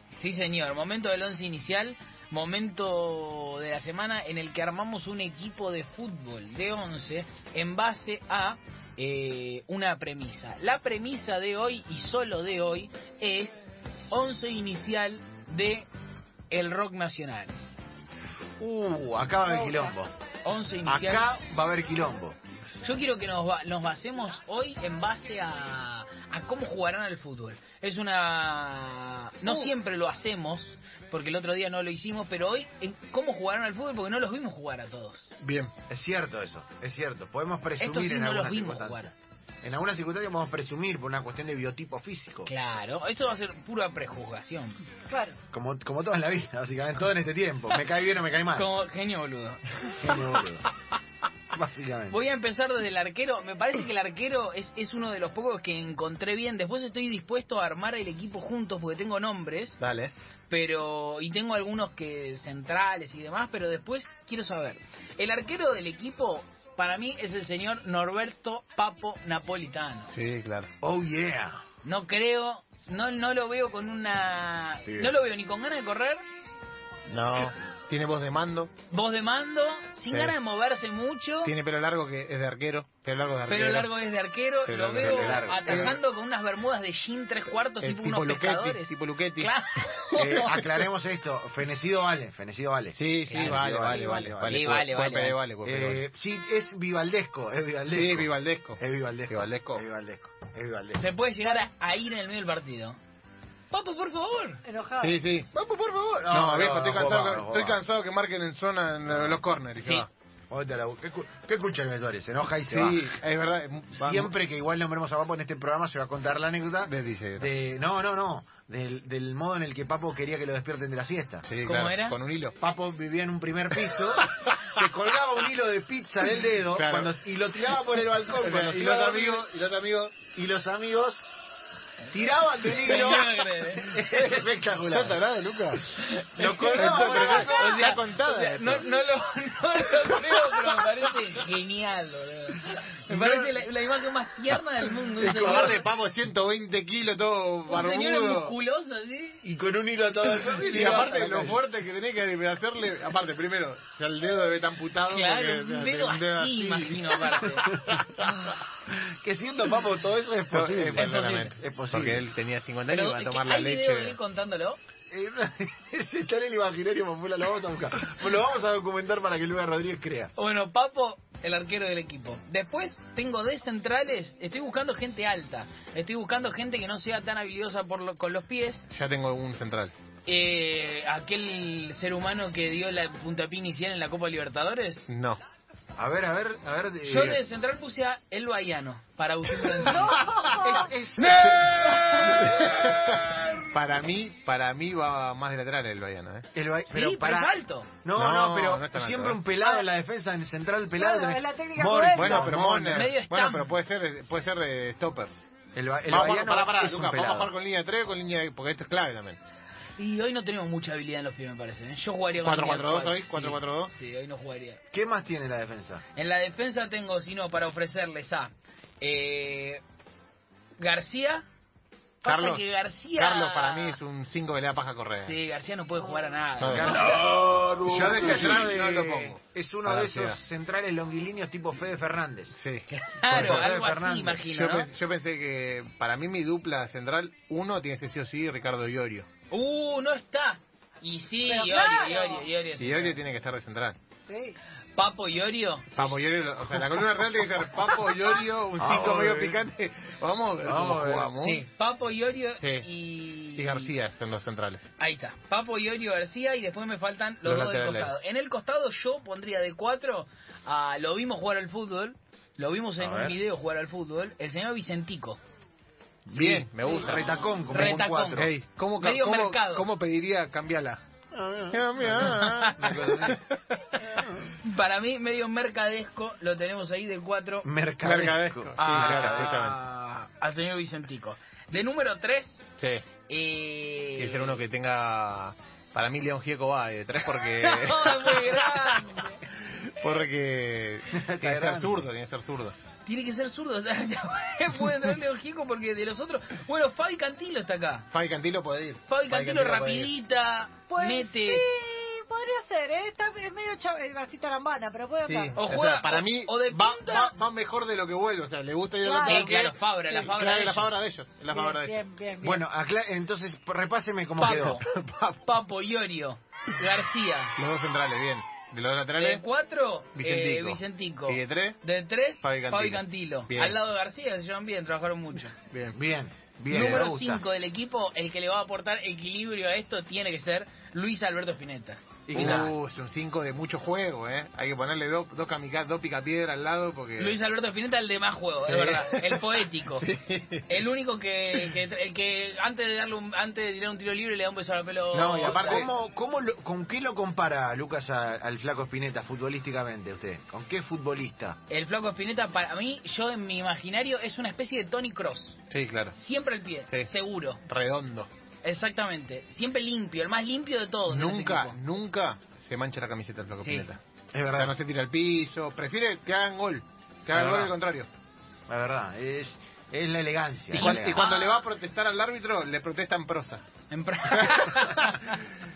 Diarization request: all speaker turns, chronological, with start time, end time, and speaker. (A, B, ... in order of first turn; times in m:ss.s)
0:00.2-0:15.9 A
0:16.5-0:17.6 A
0:18.6-0:20.1 B
0:19.5-0:19.9 C
0:20.4-0:21.3 A
0:20.8-0:22.4 B
0:22.8-0:35.3 A
0:35.4-0:35.7 D
0:35.9-0:42.5 B
0:37.8-0:39.1 A
0:42.5-0:44.8 A
0:45.1-0:45.4 C
0:45.5-0:48.7 B
0:48.5-0:50.4 A
0:50.0-0:50.7 B
0:51.5-0:52.2 B
0:52.1-0:59.8 A
0:59.8-1:00.1 D
1:00.5-1:10.1 A
1:10.1-1:10.7 D
1:10.8-1:11.6 B
1:11.8-1:16.2 A
1:14.9-1:15.2 B
1:17.1-1:18.7 D
1:18.9-1:21.5 A
1:20.1-1:20.4 D
1:21.4-1:23.9 D
1:23.5-1:30.9 A
1:24.7-1:26.0 D
1:25.0-1:26.0 B
1:27.8-1:29.5 D
1:30.2-1:34.7 B
1:33.0-1:36.0 D
1:33.3-1:33.6 A
1:34.4-1:35.4 A
1:35.6-1:41.1 B
1:37.9-1:39.8 D
1:41.0-1:43.0 A
1:43.7-1:44.6 A
1:44.6-1:45.2 C
1:45.0-1:45.5 D
1:45.5-1:47.8 B
1:46.3-1:50.1 D
1:49.1-1:49.4 B
1:49.8-1:50.1 A
1:50.5-1:53.1 B
1:52.7-1:54.3 D
1:53.9-2:01.5 B
1:56.8-1:57.5 D
2:01.4-2:02.6 D
2:01.6-2:02.2 A
2:02.6-2:09.4 B
2:03.7-2:04.8 D
2:06.4-2:07.2 D
2:07.7-2:10.2 D
2:10.3-2:11.2 B
2:12.1-2:15.2 B
2:12.6-2:14.0 A
2:14.1-2:15.8 D
2:15.9-2:25.8 A
2:16.4-2:17.8 B
2:16.7-2:19.0 D
2:20.2-2:20.8 D
2:23.1-2:23.5 B
2:25.2-2:28.6 D
2:25.4-2:25.7 B
2:27.7-2:29.4 A
2:29.4-2:31.6 B
2:30.4-2:38.5 D
2:35.1-2:37.7 A
2:38.9-2:42.3 B
2:40.5-2:44.2 D
2:41.0-2:41.5 A
2:42.9-2:44.8 A
2:45.1-2:50.3 B
2:50.4-2:58.9 A
2:58.9-2:59.9 D
3:00.3-3:05.0 A
3:05.1-3:05.4 D
3:06.0-3:07.4 B
3:07.0-3:13.1 A
3:09.8-3:10.9 C
3:10.6-3:12.3 B
3:12.4-3:16.5 D
3:16.5-3:23.0 B
3:16.9-3:17.9 A
3:18.2-3:19.4 D
3:19.6-3:19.9 C
3:21.0-3:22.4 C
3:22.1-3:25.3 D
3:22.4-3:23.7 A
3:25.8-3:27.5 B
3:26.1-3:29.4 D
3:30.0-3:34.8 A
3:32.4-3:33.9 D
3:34.9-3:36.0 B
3:36.2-3:39.8 A
3:40.8-3:41.4 A
3:42.2-3:44.0 A
3:42.2-3:45.4 D
3:45.2-3:47.4 A
3:46.6-3:47.2 D
3:46.7-3:52.6 B
3:47.8-3:50.4 D
3:52.6-3:53.7 D
3:52.9-3:54.9 A
3:53.3-3:54.4 B
3:54.5-3:59.3 D
3:59.5-4:03.2 A
4:01.5-4:02.5 C
4:02.8-4:04.0 D
4:04.3-4:04.6 C
4:05.0-4:06.2 A
4:05.9-4:11.7 D
4:08.8-4:09.6 B
4:10.6-4:11.3 B
4:11.4-4:13.9 A
4:12.6-4:12.9 D
4:13.6-4:14.9 D
4:15.0-4:25.4 A
4:17.4-4:18.1 D
4:23.0-4:23.4 B
4:26.3-4:28.5 B
4:26.3-4:31.0 D
4:27.7-4:29.9 A
4:31.3-4:33.4 B
4:31.7-4:34.1 D
4:32.2-4:33.3 A
4:34.1-4:34.6 B
4:34.6-4:37.7 A
4:37.6-4:39.6 B
4:38.0-4:39.8 D
4:38.8-4:42.7 A
4:42.8-4:43.1 D
4:43.3-4:44.6 A
4:44.2-4:52.8 D
4:47.3-4:49.4 A
4:51.1-4:52.1 B
4:53.0-4:58.1 A
4:58.1-5:00.1 D
4:59.1-5:01.6 A
5:00.9-5:05.6 C
5:05.2-5:12.1 D
5:05.6-5:07.4 A
5:09.0-5:09.6 C
5:09.2-5:10.9 A
5:11.5-5:12.6 C
5:12.4-5:14.8 B
5:14.4-5:14.8 A
5:14.4-5:15.4 D
5:15.4-5:17.6 A
5:17.6-5:19.4 D
5:19.2-5:25.6 A
5:20.2-5:21.8 D
5:22.4-5:23.8 D
5:25.7-5:26.0 D
5:25.9-5:27.4 B
5:26.7-5:32.8 A
5:26.7-5:27.1 D
5:32.3-5:32.7 B
5:32.3-5:37.4 D
5:37.2-5:40.1 A
5:38.6-5:40.8 D
5:40.7-5:45.9 A
5:45.1-5:45.9 D
5:45.4-5:51.6 B
5:51.7-5:55.6 A
5:55.7-5:56.2 D
5:56.2-5:57.6 A
5:57.7-5:58.3 D
5:58.6-6:01.8 A
6:01.1-6:04.0 D
6:03.5-6:03.9 A
6:04.3-6:04.7 B
6:04.5-6:08.1 D
6:07.3-6:07.7 B
6:08.7-6:11.2 B
6:10.7-6:11.7 A
6:10.8-6:13.6 D
6:13.9-6:15.4 A
6:14.4-6:15.1 D